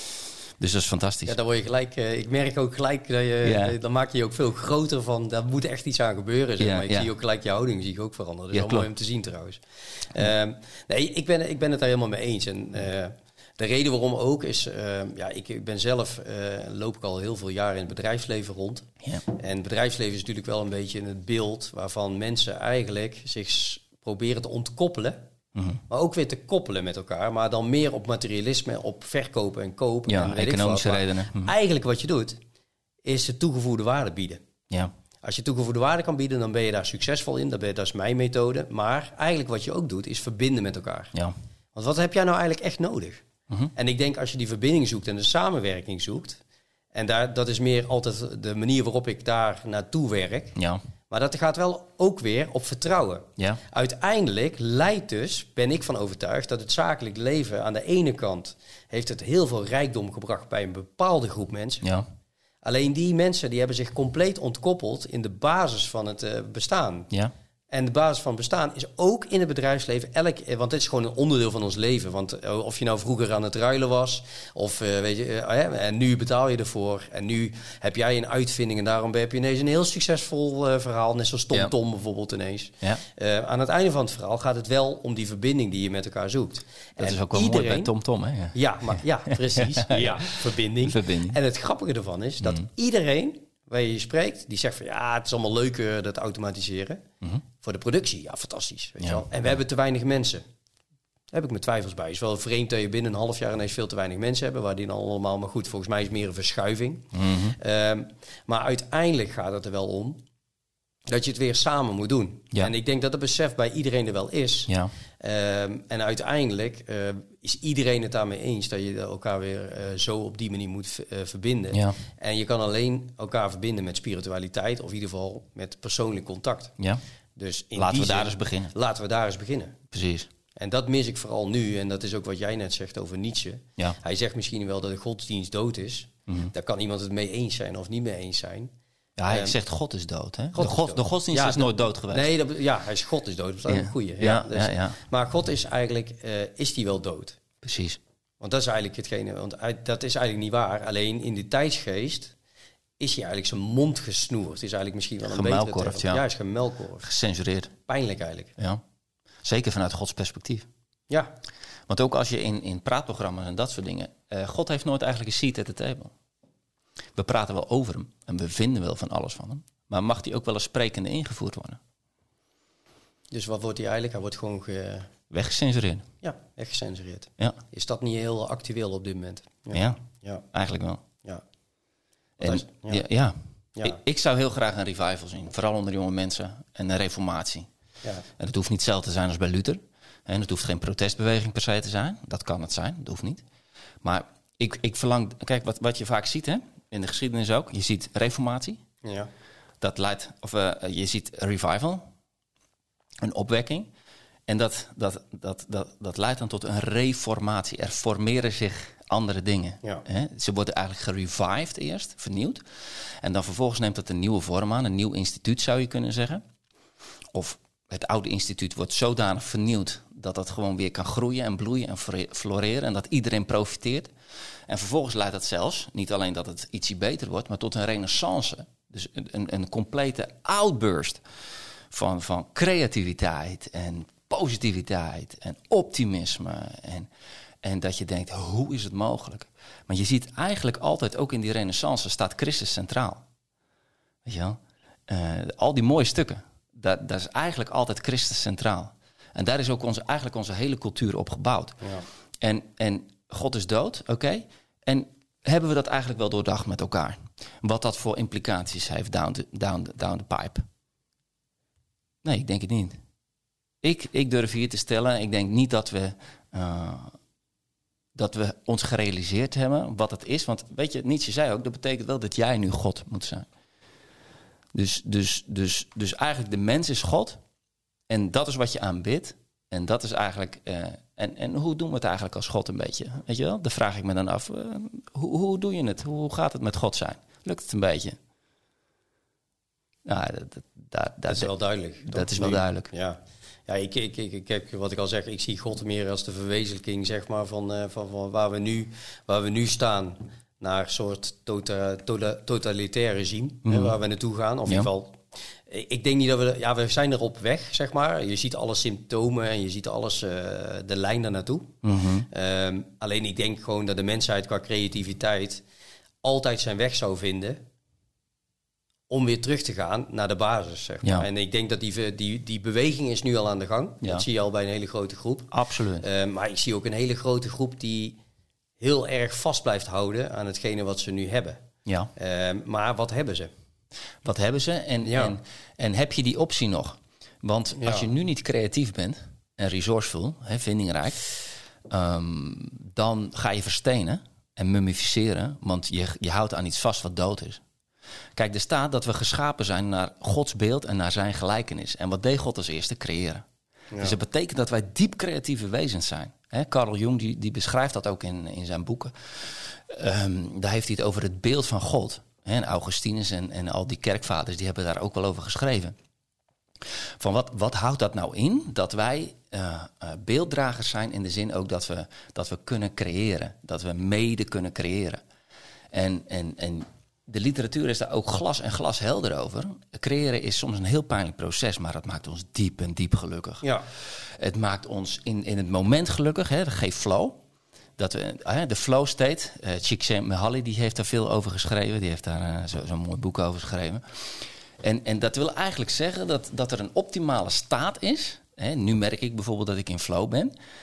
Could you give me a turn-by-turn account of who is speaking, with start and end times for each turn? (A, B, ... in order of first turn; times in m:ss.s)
0:00.6-0:01.4 A
0:01.2-0:25.2 B
0:03.4-0:03.8 A
0:06.6-0:07.1 A
0:08.5-0:08.9 A
0:25.5-0:25.8 A
0:25.9-0:32.4 B
0:30.1-0:31.5 A
0:33.0-0:34.4 B
0:35.2-0:41.1 B
0:41.8-0:43.2 B
0:43.8-0:46.4 B
0:46.9-0:50.6 B
0:50.6-0:50.8 A
0:51.1-1:01.9 B
1:02.6-1:07.1 B
1:07.7-1:27.9 B
1:27.0-1:31.4 A
1:28.5-1:37.0 B
1:37.6-1:40.4 B
1:39.0-1:39.2 A
1:41.3-1:50.2 B
1:47.1-1:47.5 A
1:51.1-2:06.8 B
2:07.4-2:09.8 B
2:07.8-2:08.7 A
2:09.9-2:10.3 A
2:10.6-2:18.7 B
2:19.2-2:22.3 A
2:19.3-2:19.5 B
2:20.5-2:27.4 B
2:23.7-2:25.0 A
2:27.6-2:28.0 A
2:28.4-2:32.3 B
2:33.0-2:37.0 B
2:35.3-2:36.2 A
2:37.0-2:37.7 A
2:37.9-2:38.5 B
2:39.4-2:40.7 A
2:41.9-2:46.1 A
2:47.2-2:51.8 A
2:53.3-2:55.1 B
2:55.3-2:56.1 A
2:56.2-3:00.4 B
2:59.7-3:00.0 A
3:00.5-3:01.0 A
3:02.4-3:07.7 A
3:02.4-3:03.0 B
3:08.4-3:13.4 A
3:14.0-3:18.8 A
3:19.0-3:19.3 B
3:19.8-3:22.0 A
3:23.2-3:23.9 A
3:24.5-3:36.4 A
3:37.3-3:44.1 A
3:44.7-3:51.2 A
3:51.9-3:57.1 A
3:57.6-4:03.2 A
4:04.2-4:11.8 A
4:11.8-4:12.0 B
4:12.4-4:20.6 A
4:22.2-4:23.0 A
4:23.8-4:27.2 A
4:28.2-4:33.5 A
4:34.7-4:37.4 A
4:38.1-4:48.2 A
4:50.0-4:51.5 A
4:51.3-5:11.7 B
4:52.0-4:52.9 A
5:03.7-5:04.0 A
5:11.8-5:12.3 A
5:12.3-5:15.6 B
5:16.2-5:17.6 B
5:19.1-5:28.2 B
5:25.5-5:26.0 A
5:28.8-5:31.6 B
5:31.9-5:32.1 A
5:32.2-5:33.5 B
5:34.2-5:41.3 A
5:35.0-5:35.4 B
5:37.8-5:38.1 B
5:41.9-5:47.6 A
5:48.4-5:53.4 A
5:54.0-6:06.0 A
6:07.2-6:15.2 A
6:15.9-6:27.4 A
6:28.0-6:40.5 A